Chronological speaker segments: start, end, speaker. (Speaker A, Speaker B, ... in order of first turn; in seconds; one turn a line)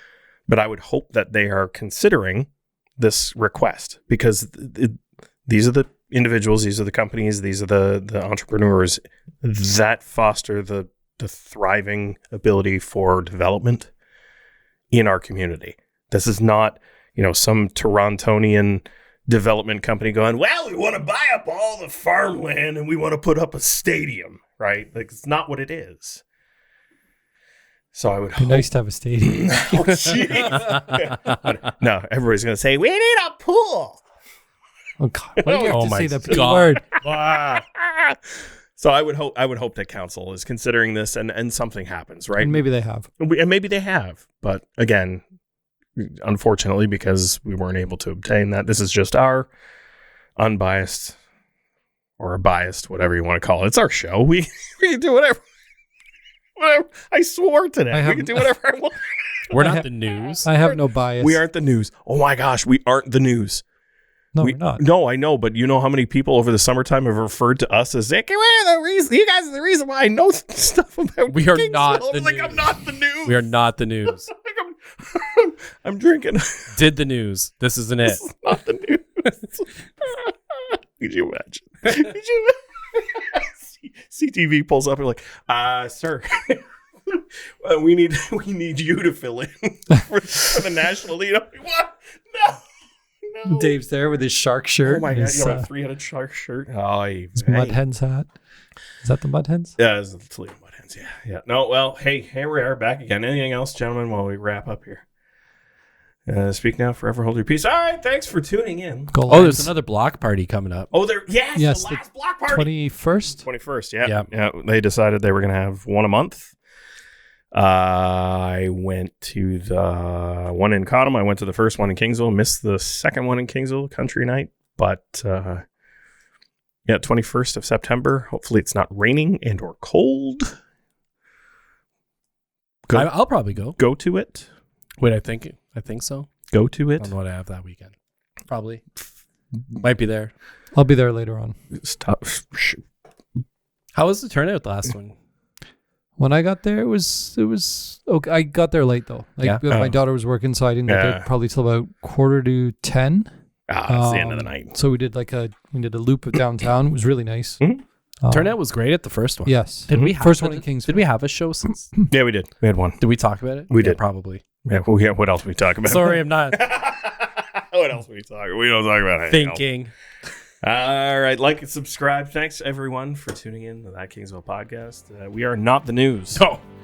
Speaker A: 0.5-13.9
Speaker A: 14.9-26.2
Speaker A: 27.9-28.7
Speaker B: 28.4-30.1
Speaker A: 29.2-34.0
Speaker C: 30.4-30.7
Speaker B: 35.0-36.9
Speaker A: 35.4-38.2
Speaker C: 35.6-36.8
Speaker A: 38.8-42.6
Speaker B: 42.4-43.1
Speaker A: 43.2-45.2
Speaker A: 46.0-49.5
Speaker A: 50.4-51.2
Speaker A: 52.2-55.4
Speaker A: 56.6-59.5
Speaker B: 57.9-58.5
Speaker C: 59.5-60.5
Speaker B: 59.5-59.9
Speaker A: 60.2-63.6
Speaker B: 60.4-61.4
Speaker B: 64.3-64.8
Speaker A: 64.4-73.4
Speaker C: 71.3-74.3
Speaker A: 74.1-76.8
Speaker C: 76.7-78.2
Speaker A: 78.0-92.6
Speaker A: 93.3-93.8
Speaker B: 93.5-95.7
Speaker A: 94.8-97.8
Speaker B: 97.4-98.3
Speaker B: 99.0-99.8
Speaker A: 99.8-105.0
Speaker A: 106.3-109.1
Speaker B: 109.1-109.7
Speaker C: 109.3-110.9
Speaker A: 110.9-112.7
Speaker B: 111.5-113.5
Speaker A: 113.4-116.5
Speaker A: 117.5-125.6
Speaker A: 126.9-130.6
Speaker A: 132.9-133.1
Speaker C: 132.9-133.8
Speaker A: 133.8-134.5
Speaker C: 135.0-136.3
Speaker A: 136.5-137.2
Speaker C: 137.0-137.9
Speaker C: 138.5-139.0
Speaker C: 139.7-140.3
Speaker B: 140.7-141.6
Speaker A: 141.8-142.8
Speaker C: 143.9-145.2
Speaker B: 146.2-153.3
Speaker A: 150.9-151.3
Speaker A: 153.7-154.8
Speaker B: 153.9-157.6
Speaker B: 158.2-158.6
Speaker C: 158.3-161.9
Speaker B: 159.4-161.1
Speaker A: 162.1-163.0
Speaker C: 163.0-164.4
Speaker A: 163.7-164.0
Speaker A: 164.6-169.6
Speaker C: 165.8-166.6
Speaker C: 169.3-169.9
Speaker A: 170.6-176.5
Speaker C: 176.3-176.6